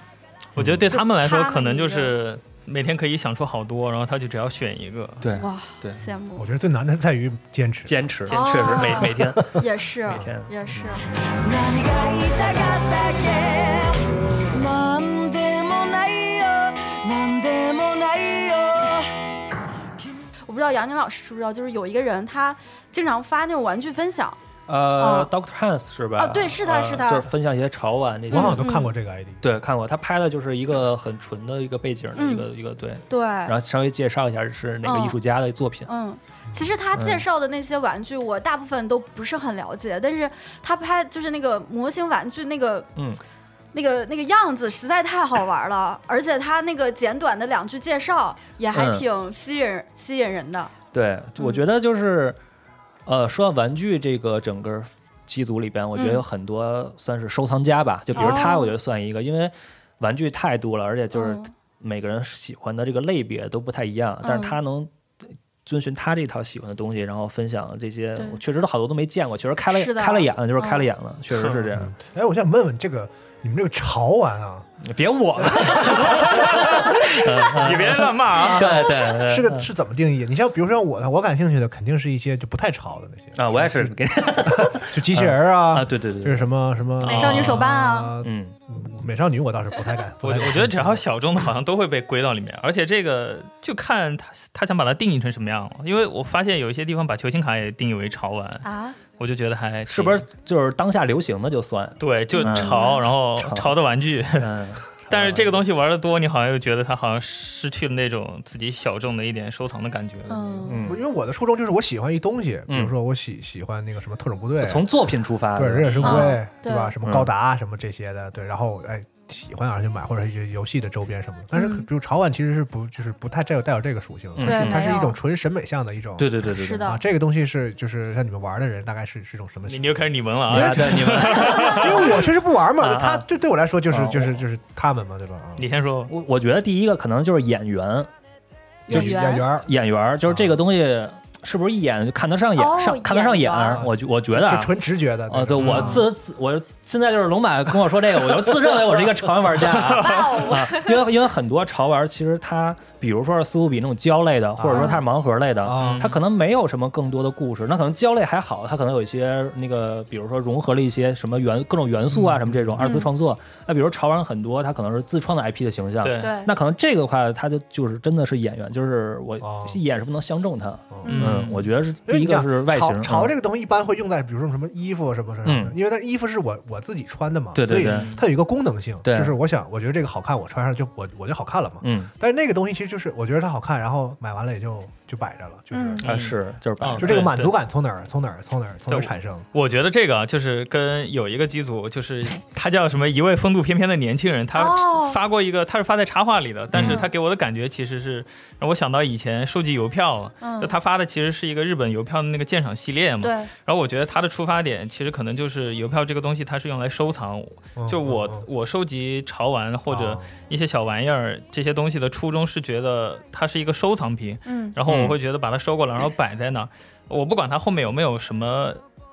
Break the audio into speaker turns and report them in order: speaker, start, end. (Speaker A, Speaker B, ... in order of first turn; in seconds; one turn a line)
Speaker A: 0.6-0.9
Speaker B: 0.6-5.2
Speaker C: 0.9-2.1
Speaker A: 5.2-6.0
Speaker C: 5.3-6.5
Speaker D: 6.3-8.0
Speaker A: 7.8-10.9
Speaker C: 8.3-11.0
Speaker B: 8.3-9.0
Speaker E: 11.4-19.1
Speaker C: 20.5-24.4
Speaker A: 24.7-28.6
Speaker C: 25.0-25.3
Speaker C: 26.2-27.3
Speaker C: 28.3-28.9
Speaker D: 28.3-29.4
Speaker A: 29.4-35.9
Speaker C: 32.1-32.5
Speaker C: 33.1-33.5
Speaker C: 34.8-35.2
Speaker C: 35.9-42.9
Speaker A: 36.9-37.2
Speaker C: 43.7-50.7
Speaker A: 48.7-49.0
Speaker A: 50.9-52.4
Speaker A: 53.0-71.9
Speaker C: 55.9-56.2
Speaker C: 58.1-58.7
Speaker C: 61.1-61.5
Speaker C: 64.2-64.6
Speaker C: 69.7-70.9
Speaker B: 71.3-71.6
Speaker D: 71.7-74.7
Speaker A: 74.8-79.7
Speaker D: 75.4-76.9
Speaker B: 76.1-78.8
Speaker D: 78.4-91.0
Speaker A: 83.3-86.5
Speaker B: 87.0-87.6
Speaker C: 87.0-88.1
Speaker A: 88.2-88.5
Speaker B: 90.2-98.7
Speaker C: 98.6-99.0
Speaker B: 99.2-100.2
Speaker A: 99.9-103.7
Speaker B: 102.0-104.5
Speaker C: 102.3-103.0
Speaker A: 104.4-105.6
Speaker B: 105.1-110.7
Speaker C: 110.3-110.8
Speaker A: 110.7-111.0
Speaker D: 110.8-135.7
Speaker A: 112.7-112.9
Speaker A: 114.6-116.2
Speaker B: 115.8-116.3
Speaker C: 116.0-116.9
Speaker A: 117.0-117.3
Speaker C: 121.5-121.8
Speaker A: 124.4-124.9
Speaker C: 124.4-125.2
Speaker A: 126.2-126.9
Speaker C: 126.5-127.0
Speaker B: 129.7-132.1
Speaker A: 130.5-132.1
Speaker C: 131.4-131.8
Speaker A: 132.8-133.2
Speaker A: 133.9-134.4
Speaker B: 135.6-136.1
Speaker A: 136.1-138.1
Speaker C: 138.9-139.5
Speaker D: 138.9-139.7
Speaker A: 138.9-144.7
Speaker D: 140.2-140.6
Speaker C: 142.6-143.8
Speaker D: 143.7-146.1
Speaker A: 145.3-173.3
Speaker B: 145.6-146.0
Speaker D: 148.4-149.2
Speaker B: 149.7-150.5
Speaker C: 149.9-151.0
Speaker D: 154.6-155.0
Speaker C: 154.7-155.0
Speaker D: 155.6-156.1
Speaker B: 155.8-156.2
Speaker D: 162.1-162.8
Speaker C: 162.8-163.1
Speaker B: 166.0-166.3
Speaker C: 166.2-166.5
Speaker D: 169.4-169.8
Speaker D: 170.9-171.3
Speaker C: 171.0-171.4
Speaker B: 171.1-171.6
Speaker D: 172.1-186.1
Speaker A: 175.4-175.7
Speaker A: 177.5-178.1
Speaker B: 177.7-178.2
Speaker A: 179.0-179.4
Speaker A: 181.8-182.1
Speaker C: 185.7-186.0
Speaker B: 186.0-187.5
Speaker A: 186.0-187.3
Speaker D: 187.0-189.4
Speaker B: 188.9-218.8
Speaker C: 194.5-195.2
Speaker A: 196.7-197.0
Speaker C: 196.8-197.1
Speaker C: 200.4-200.7
Speaker C: 203.2-203.5
Speaker D: 207.8-208.4
Speaker D: 209.9-210.3
Speaker C: 214.4-214.8